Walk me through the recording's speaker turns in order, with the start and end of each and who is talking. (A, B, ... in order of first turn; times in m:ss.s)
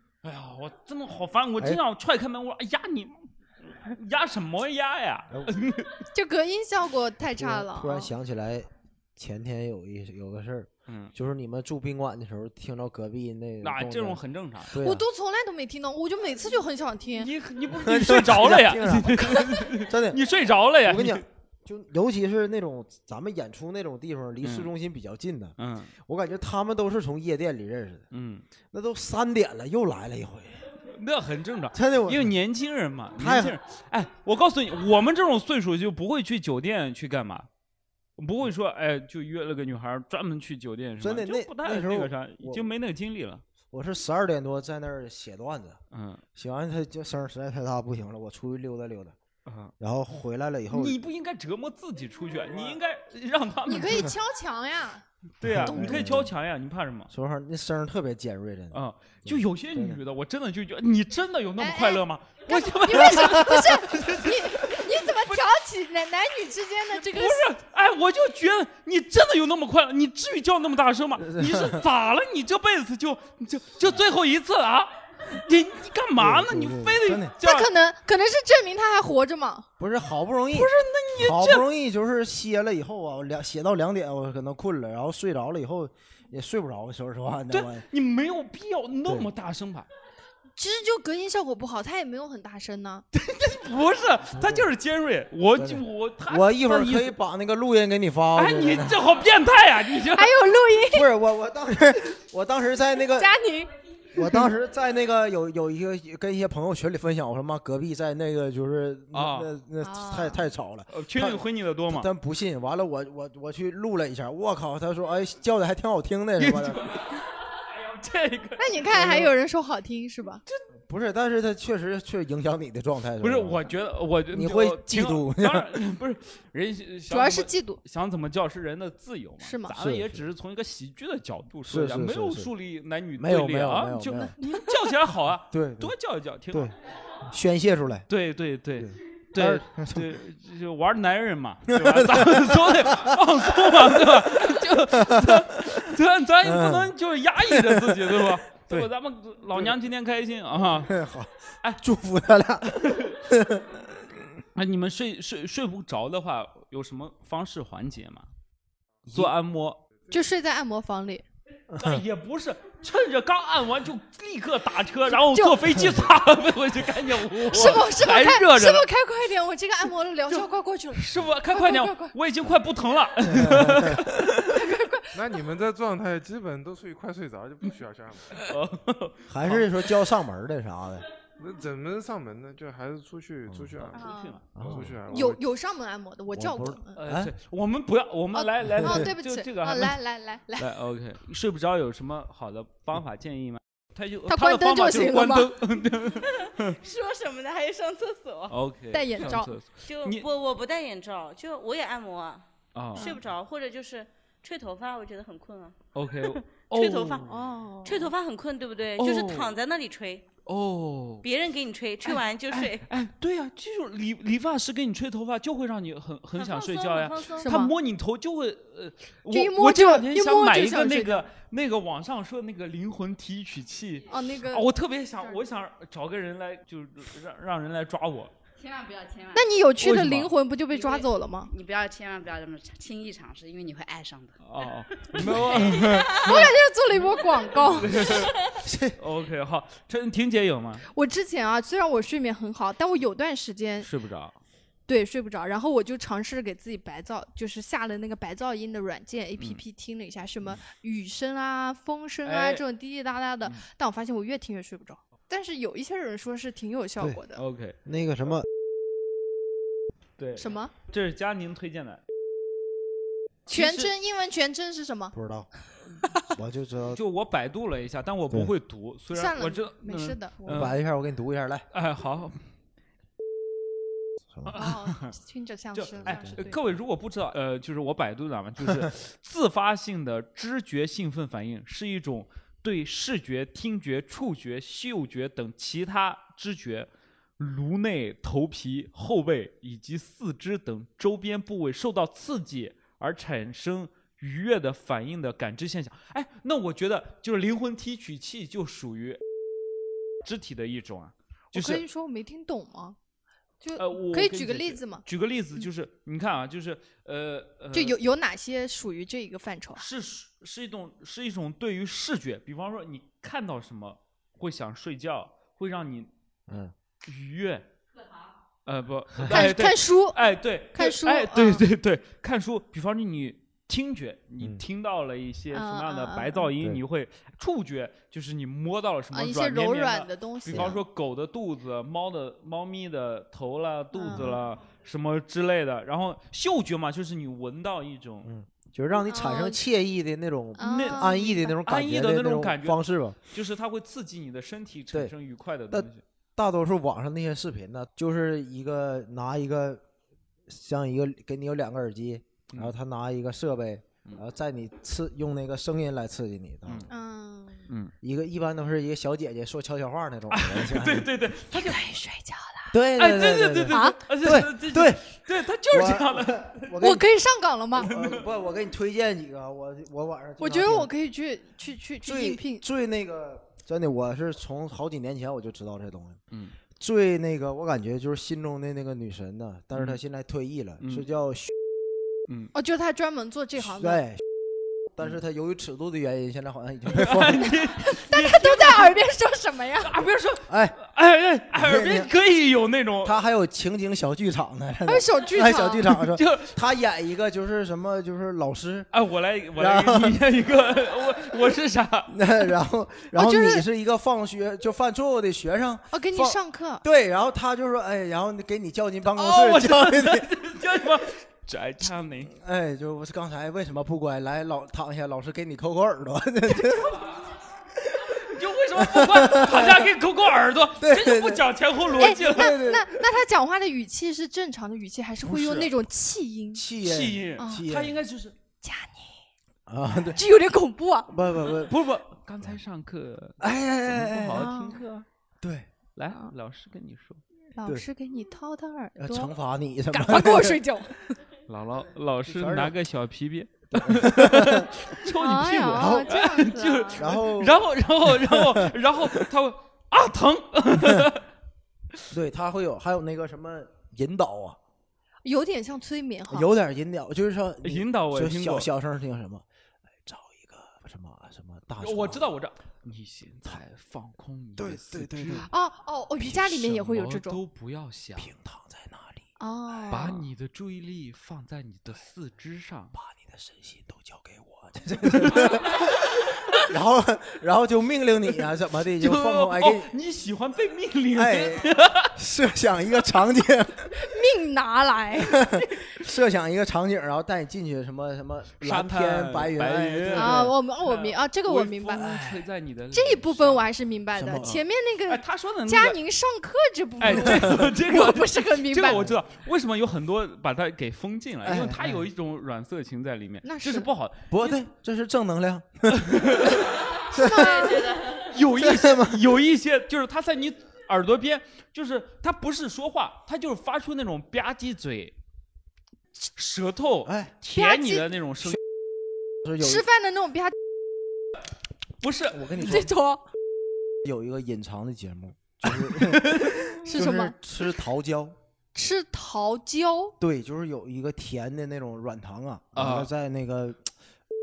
0:00.2-0:06.0 A
0:06.1-0:08.1 B
0:07.3-0:15.0 C
0:10.9-0:11.1 A
0:13.6-0:14.7 A
0:14.8-0:17.3 B
0:17.2-0:21.2 A
0:17.7-0:20.2 C
0:20.8-0:28.0 C
0:24.4-0:24.7 A
0:25.6-0:25.9 A
0:28.1-0:28.4 A
0:28.7-0:30.6 C
0:30.8-0:37.5 A
0:31.7-0:32.3 C
0:33.2-0:33.6 C
0:38.2-0:43.4 A
0:41.0-0:42.6 C
0:43.7-0:45.8 C
0:45.9-0:46.2 A
0:46.3-0:49.1 C
0:49.4-0:49.7 A
0:49.8-0:51.0 C
0:50.7-0:54.1 A
0:53.6-0:55.0 B
0:55.4-0:57.1 A
0:55.4-0:56.3 C
0:55.6-0:56.0 B
0:57.1-1:00.0 C
0:58.7-1:05.5 A
1:01.6-1:07.5 B
1:06.9-1:17.7 A
1:11.2-1:11.8 C
1:16.2-1:17.3 C
1:17.4-1:19.7 B
1:19.8-1:27.8 C
1:20.5-1:21.7 A
1:27.5-1:29.9 A
1:30.6-1:33.0 B
1:33.1-1:37.1 A
1:34.3-1:34.7 C
1:35.6-1:39.0 C
1:38.4-1:40.4 A
1:40.1-1:41.1 B
1:40.9-1:43.3 C
1:43.2-1:44.5 B
1:44.1-1:56.8 C
1:49.1-1:49.5 A
1:49.8-1:50.4 B
1:50.9-1:52.1 A
1:56.4-1:59.1 A
1:58.6-2:00.4 B
1:58.9-1:59.3 C
2:00.9-2:03.6 C
2:03.2-2:16.7 A
2:04.3-2:05.7 C
2:07.1-2:07.8 B
2:09.4-2:09.7 B
2:09.8-2:10.2 C
2:11.6-2:12.5 C
2:13.2-2:14.4 C
2:15.5-2:15.9 C
2:16.5-2:18.1 C
2:18.1-2:30.9 A
2:18.8-2:20.2 C
2:21.7-2:23.2 C
2:23.9-2:24.2 C
2:24.7-2:25.8 C
2:26.4-2:28.9 C
2:30.8-2:34.2 C
2:32.8-2:33.2 A
2:34.5-2:38.3 A
2:39.0-2:39.3 C
2:39.1-2:39.8 A
2:40.1-2:41.2 B
2:41.7-2:42.0 C
2:41.8-2:48.9 A
2:45.1-2:46.0 B
2:47.4-2:52.1 B
2:50.3-2:54.6 A
2:53.2-2:54.1 C
2:54.5-2:55.1 B
2:55.1-2:58.4 D
2:58.3-3:00.0 A
2:59.3-3:01.0 C
3:01.4-3:05.4 D
3:03.5-3:03.8 C
3:03.8-3:04.8 A
3:03.9-3:04.4 B
3:04.6-3:05.0 C
3:05.1-3:07.0 B
3:06.3-3:07.3 C
3:07.0-3:10.0 A
3:08.3-3:10.7 B
3:10.6-3:16.8 A
3:14.3-3:15.6 B
3:16.1-3:18.6 E
3:18.5-3:20.2 A
3:18.9-3:19.5 B
3:19.2-3:27.3 E
3:22.7-3:23.2 A
3:22.9-3:23.2 B
3:25.9-3:27.3 A
3:27.3-3:28.1 B
3:27.8-3:30.3 E
3:29.0-3:29.6 A
3:30.4-3:31.3 A
3:31.2-3:32.8 E
3:32.0-3:48.3 A
3:36.4-3:37.5 E
3:37.4-3:37.7 B
3:39.3-3:41.2 B
3:44.1-3:44.7 B
3:48.6-3:49.7 F
3:49.3-3:51.5 B
3:49.8-3:50.3 A
3:50.7-3:56.3 F
3:54.4-3:56.6 A
3:55.6-3:58.3 B
3:57.5-4:00.9 A
3:58.6-3:59.0 C
4:00.9-4:03.9 B
4:03.8-4:04.4 A
4:04.9-4:17.4 B
4:12.2-4:12.6 A
4:17.4-4:17.8 A
4:17.8-4:18.4 C
4:20.2-4:22.0 A
4:20.4-4:20.7 B
4:23.4-4:23.9 A
4:23.5-4:25.1 B
4:25.1-4:25.5 C
4:26.3-4:27.0 C
4:26.9-4:30.8 A
4:29.1-4:30.7 B
4:30.4-4:31.6 C
4:31.7-4:32.4 A
4:34.5-4:35.1 A
4:34.5-4:36.6 B
4:35.7-4:59.2 A
4:36.0-4:36.4 C
5:00.2-5:01.8 A
5:01.5-5:03.0 B
5:03.6-5:05.0 B
5:03.8-5:08.0 A
5:07.7-5:09.8 B
5:09.8-5:16.1 A
5:16.5-5:16.7 C
5:17.0-5:17.6 A
5:18.6-5:38.3 A
5:19.3-5:21.6 B
5:25.5-5:26.5 B
5:29.1-5:30.8 B
5:30.5-5:30.8 C
5:33.9-5:34.4 B
5:38.2-5:43.2 C
5:39.0-5:39.6 B
5:40.6-5:41.5 B
5:40.6-5:46.0 A
5:45.7-5:49.8 C
5:50.5-5:56.9 C
5:56.9-5:57.7 B
5:58.0-6:01.1 C
6:00.3-6:01.9 A
6:01.5-6:02.7 B
6:02.7-6:05.1 C
6:03.0-6:06.8 A
6:03.7-6:04.0 B
6:05.7-6:07.0 C
6:06.8-6:07.9 B
6:07.8-6:10.9 C
6:07.8-6:08.3 A
6:10.4-6:12.6 B
6:12.0-6:16.2 C
6:16.8-6:21.5 C
6:19.7-6:20.0 A
6:22.5-6:24.0 B
6:23.6-6:24.2 C
6:24.9-6:27.5 C
6:26.9-6:29.0 A
6:27.7-6:30.0 B
6:29.8-6:33.2 A
6:30.5-6:30.8 C
6:31.5-6:32.1 C
6:33.0-6:38.9 C
6:34.8-6:35.9 B
6:36.0-6:36.6 A
6:38.9-6:42.1 A
6:39.6-6:40.2 C
6:42.1-6:50.3 C
6:43.1-6:43.6 B
6:45.9-6:46.8 B
6:49.1-6:52.3 A
6:52.3-6:57.0 C
6:58.0-6:58.2 C
6:58.1-7:02.8 A
6:58.8-6:59.9 C
7:00.8-7:01.5 C
7:02.0-7:06.6 B
7:02.1-7:02.9 C
7:05.2-7:05.7 A
7:06.5-7:08.0 C
7:06.8-7:08.3 A
7:07.4-7:07.7 B
7:08.6-7:09.1 B
7:09.7-7:10.2 C
7:10.1-7:11.1 B
7:11.1-7:11.8 C
7:11.5-7:15.0 A
7:13.4-7:14.5 C
7:14.3-7:14.8 B
7:15.4-7:15.7 C
7:16.0-7:17.2 A
7:17.5-7:19.3 B
7:19.0-7:20.6 C
7:19.9-7:21.0 B
7:21.5-7:31.2 A
7:22.2-7:22.7 C
7:23.7-7:24.7 C
7:25.1-7:27.0 B
7:25.7-7:26.2 C
7:26.9-7:29.2 C
7:30.8-7:31.1 C
7:32.1-7:34.6 C
7:35.2-7:36.5 B
7:36.3-7:39.4 C
7:37.6-7:38.7 A
7:40.0-7:42.3 C
7:41.8-7:45.5 A
7:44.6-7:45.5 C
7:45.4-7:47.4 B
7:46.3-7:48.3 A
7:48.2-7:49.2 C
7:49.4-7:50.2 B
7:49.9-7:52.9 A
7:52.9-7:59.9 C
7:55.0-7:56.6 A
7:59.0-8:02.1 A
8:01.1-8:04.0 C
8:03.9-8:05.6 B
8:05.3-8:10.5 C
8:08.6-8:13.7 A
8:10.1-8:12.3 B
8:12.9-8:19.0 B
8:14.1-8:14.6 C
8:14.4-8:16.0 A
8:17.0-8:24.6 A
8:17.2-8:17.6 C
8:21.4-8:22.1 C
8:23.4-8:23.9 B
8:24.3-8:27.7 C
8:25.9-8:27.0 A
8:27.0-8:28.2 B
8:28.1-8:35.1 A
8:28.5-8:29.3 C
8:36.3-8:38.6 A
8:37.0-8:37.3 C
8:37.5-8:38.1 B
8:39.4-8:39.8 C
8:39.6-8:40.5 B
8:42.0-8:42.6 A
8:42.3-8:42.9 C
8:42.6-8:43.2 B
8:44.0-8:48.3 C
8:45.7-8:46.8 A
8:46.7-8:47.3 B
8:48.7-8:50.2 B
8:50.2-8:53.8 C
8:52.7-8:53.1 A